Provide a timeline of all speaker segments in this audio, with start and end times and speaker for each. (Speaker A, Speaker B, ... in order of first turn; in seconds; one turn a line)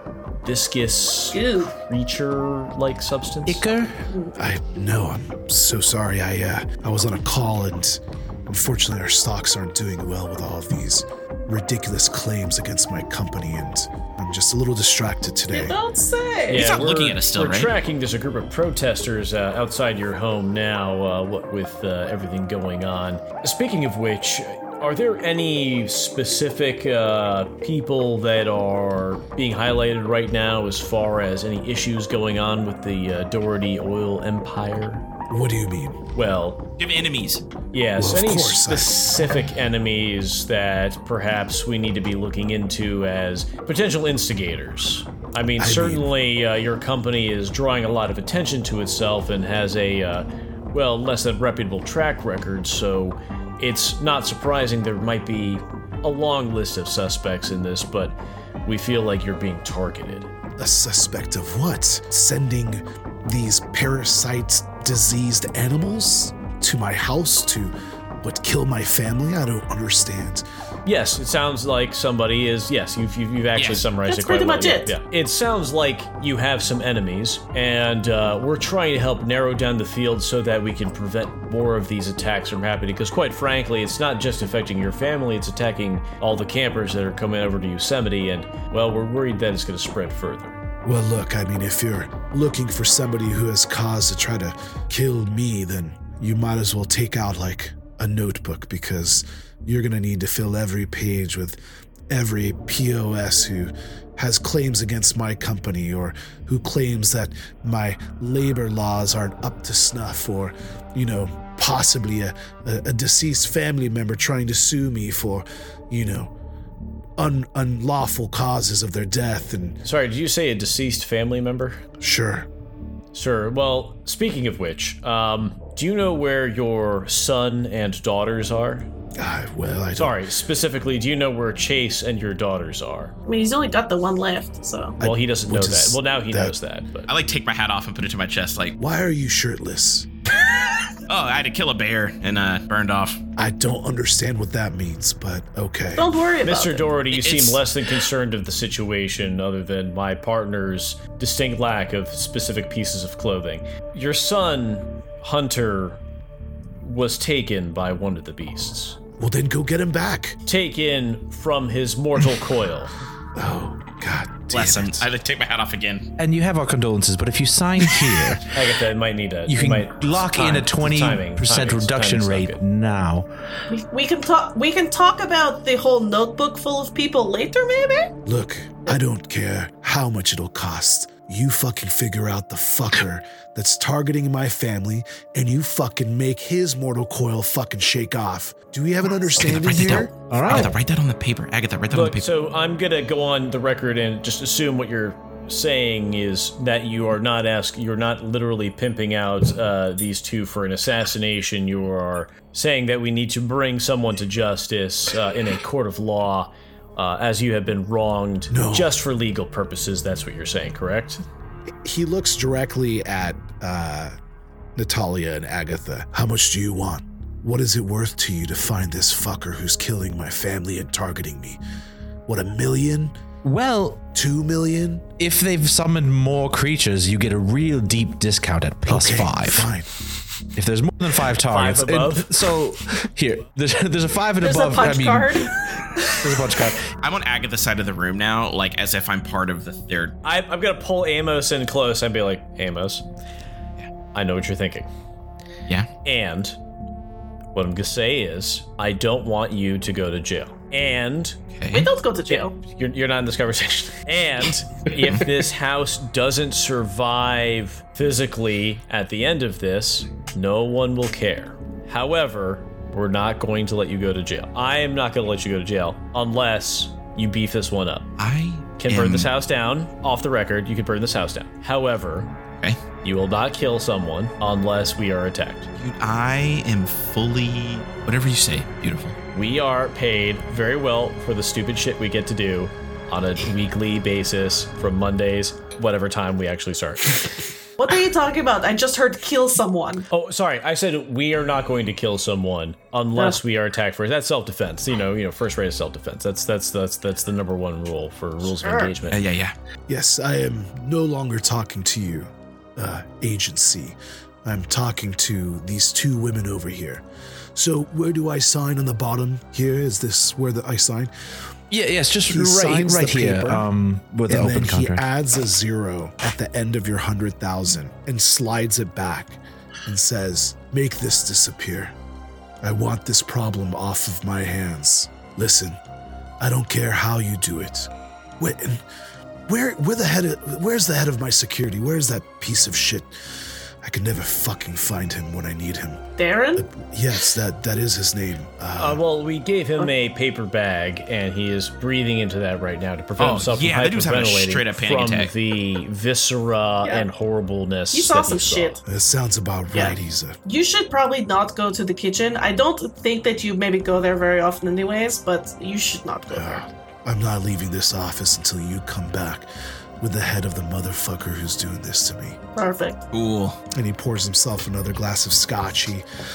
Speaker A: 0.4-3.6
Speaker B: 1.3-1.7
Speaker C: 3.5-4.0
Speaker B: 4.1-4.3
Speaker D: 4.3-15.8
Speaker B: 15.5-16.7
Speaker A: 16.5-35.0
Speaker E: 16.5-17.7
Speaker D: 35.3-36.0
Speaker A: 36.1-36.6
Speaker E: 36.8-37.4
Speaker A: 37.7-60.3
Speaker D: 38.0-39.4
Speaker D: 45.6-46.1
Speaker D: 60.6-70.4
Speaker A: 70.8-90.6
Speaker E: 73.5-73.8
Speaker B: 74.0-74.9
Speaker D: 90.8-101.6
Speaker D: 102.1-116.3
Speaker D: 117.2-119.8
Speaker A: 119.8-121.8
Speaker D: 122.0-122.5
Speaker A: 123.1-128.9
Speaker D: 129.2-130.2
Speaker A: 129.9-133.1
Speaker B: 133.2-135.0
Speaker D: 135.0-136.5
Speaker A: 135.0-137.1
Speaker E: 137.1-138.8
Speaker D: 138.8-140.1
Speaker E: 141.1-143.2
Speaker D: 143.4-146.3
Speaker B: 145.9-146.9
Speaker A: 146.4-156.0
Speaker E: 147.1-147.6
Speaker A: 156.8-159.0
Speaker D: 159.2-160.4
Speaker A: 160.4-162.9
Speaker D: 163.3-165.1
Speaker E: 164.5-166.1
Speaker C: 166.2-168.8
Speaker A: 168.5-172.6
Speaker C: 169.5-173.3
Speaker B: 173.7-178.2
Speaker D: 178.2-190.6
Speaker E: 189.4-192.3
Speaker C: 189.6-190.7
Speaker A: 191.9-211.2
Speaker D: 208.5-208.9
Speaker D: 211.8-214.2
Speaker D: 214.8-221.6
Speaker D: 222.3-223.2
Speaker C: 223.4-224.1
Speaker D: 224.1-225.1
Speaker C: 225.2-229.7
Speaker D: 228.8-229.9
Speaker C: 230.6-236.9
Speaker A: 231.4-232.5
Speaker B: 234.4-236.4
Speaker E: 237.0-240.2
Speaker A: 240.2-243.1
Speaker A: 244.1-244.9
Speaker A: 246.0-246.6
Speaker A: 247.5-251.4
Speaker E: 251.6-251.9
Speaker B: 251.7-252.5
Speaker A: 252.3-268.1
Speaker E: 268.2-269.3
Speaker A: 268.8-272.3
Speaker A: 273.0-275.7
Speaker E: 275.8-279.2
Speaker A: 279.3-287.5
Speaker B: 287.8-290.1
Speaker A: 290.1-299.2
Speaker B: 298.6-298.9
Speaker E: 299.1-299.5
Speaker D: 299.9-307.0
Speaker D: 307.5-311.1
Speaker C: 311.7-315.0
Speaker D: 312.3-313.6
Speaker D: 314.3-321.9
Speaker D: 322.6-325.8
Speaker D: 326.4-328.8
Speaker D: 329.5-336.0
Speaker B: 336.2-336.7
Speaker D: 336.6-339.0
Speaker A: 338.8-348.8
Speaker E: 343.2-345.3
Speaker B: 347.9-348.8
Speaker D: 348.8-350.4
Speaker B: 349.7-356.6
Speaker D: 356.3-359.5
Speaker D: 360.0-362.4
Speaker B: 362.5-363.0
Speaker E: 363.1-363.6
Speaker D: 363.7-366.0